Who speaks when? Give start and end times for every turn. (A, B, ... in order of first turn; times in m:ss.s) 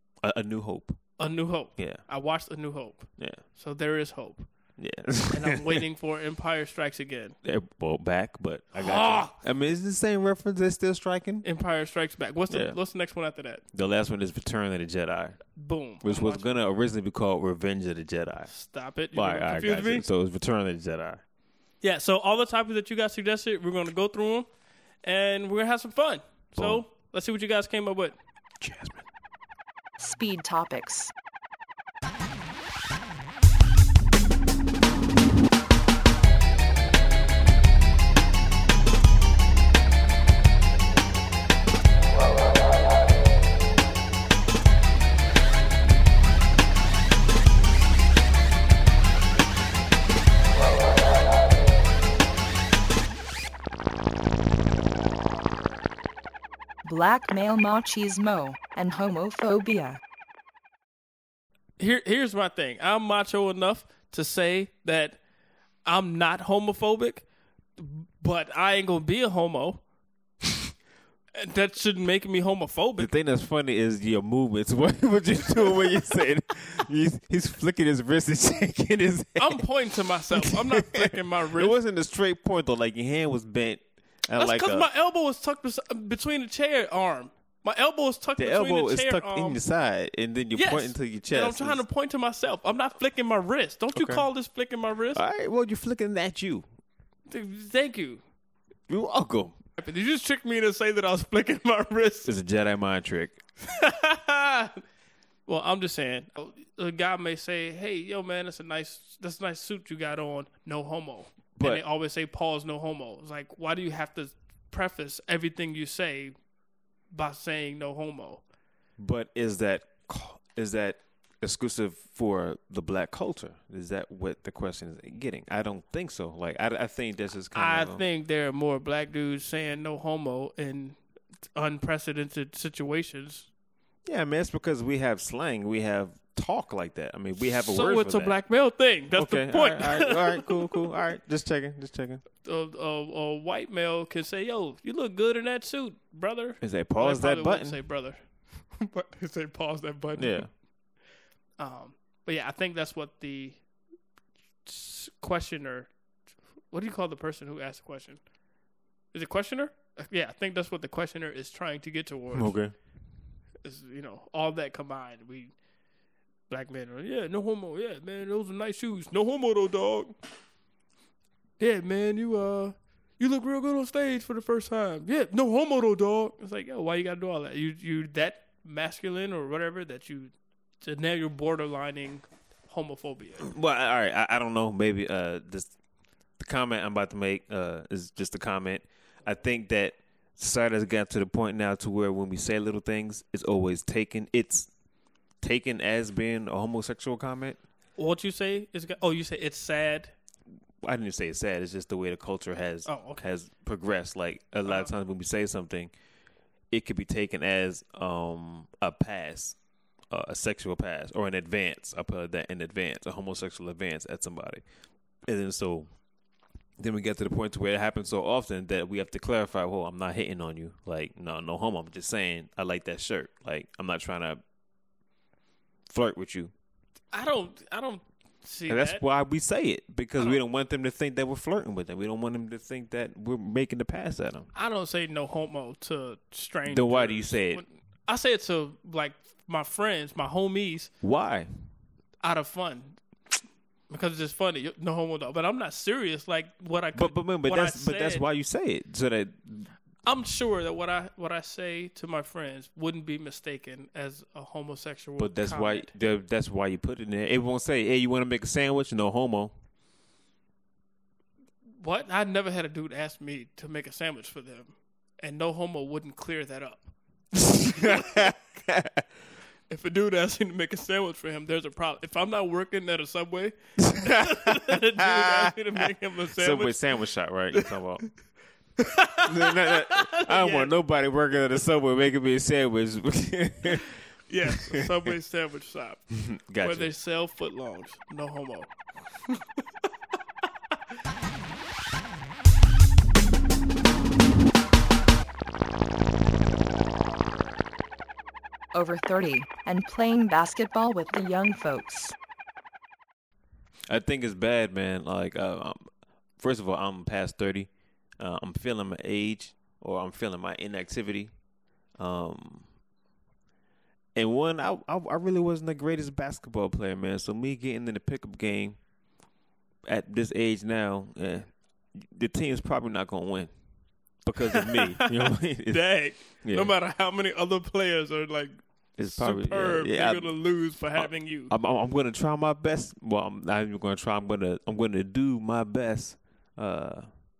0:00.2-0:01.2 A
0:01.2-0:04.5 B
0:01.8-0:02.0 A
0:03.2-0:03.4 A
0:04.8-0:05.8 A
0:05.3-0:07.4 B
0:07.4-0:11.4 A
0:08.8-0:09.3 B
0:11.4-0:13.6 B
0:12.5-0:12.8 A
0:13.7-0:18.5 A
0:15.6-0:16.5 B
0:18.5-0:20.1 B
0:19.1-0:21.2 A
0:21.8-0:24.5 B
0:25.0-0:28.2 B
0:26.5-0:26.8 A
0:28.6-0:29.0 A
0:30.0-0:31.1 C
0:56.8-1:00.0 C
1:01.8-1:05.2 B
1:05.8-1:07.2 B
1:07.8-1:09.8 B
1:11.3-1:13.1 B
1:13.0-1:19.6 A
1:19.4-1:21.7 B
1:20.3-1:24.9 A
1:24.3-1:29.6 B
1:28.4-1:31.8 A
1:30.5-1:35.2 B
1:33.9-1:34.2 A
1:35.1-1:36.6 A
1:37.3-1:38.2 B
1:38.9-1:39.5 A
1:39.8-1:42.3 B
1:42.2-1:43.4 A
1:43.6-1:44.8 B
1:45.5-1:56.3 B
1:51.6-1:51.8 A
1:57.1-1:58.4 B
1:59.0-2:08.0 A
2:07.5-2:11.0 B
2:11.5-2:13.5 B
2:14.0-2:18.4 A
2:17.4-2:20.7 B
2:19.1-2:22.2 A
2:22.4-2:30.4 B
2:26.6-2:27.8 A
2:30.2-2:30.5 A
2:31.6-2:33.6 B
2:34.6-2:35.9 B
2:36.7-2:38.2 B
2:39.1-2:42.5 B
2:42.3-2:42.7 A
2:43.6-2:45.5 B
2:46.5-2:50.2 B
2:51.6-3:03.5 B
3:03.4-3:05.7 A
3:06.4-3:14.7 A
3:15.4-3:17.6 A
3:18.0-3:20.1 B
3:20.8-3:25.9 A
3:22.8-3:23.2 B
3:24.6-3:24.9 B
3:26.7-3:29.5 A
3:30.1-3:34.6 A
3:35.2-3:35.9 A
3:36.8-3:44.4 A
3:45.9-3:46.5 A
3:47.1-3:49.0 B
3:48.7-3:54.5 A
3:54.5-4:00.9 B
3:56.7-3:57.6 A
4:01.0-4:01.5 A
4:02.2-4:03.0 B
4:03.9-4:08.2 B
4:06.9-4:09.7 A
4:10.0-4:15.9 B
4:15.2-4:19.5 A
4:21.8-4:26.9 B
4:27.4-4:29.0 A
4:27.7-4:28.3 B
4:29.7-4:36.8 B
4:33.8-4:35.5 A
4:36.4-4:38.2 A
4:38.8-4:40.7 B
4:39.2-4:44.0 A
4:44.3-4:48.8 B
4:44.7-4:45.1 A
4:46.1-4:46.9 A
4:58.7-5:02.1 C
5:03.9-5:05.8 A
5:06.4-5:07.7 A
5:08.2-5:11.3 A
5:12.0-5:12.7 A
5:14.2-5:18.8 A
5:19.8-5:23.5 A
5:24.2-5:26.7 A
5:24.6-5:25.1 B
5:25.7-5:31.5 B
5:29.0-5:30.3 A
5:30.9-5:37.1 A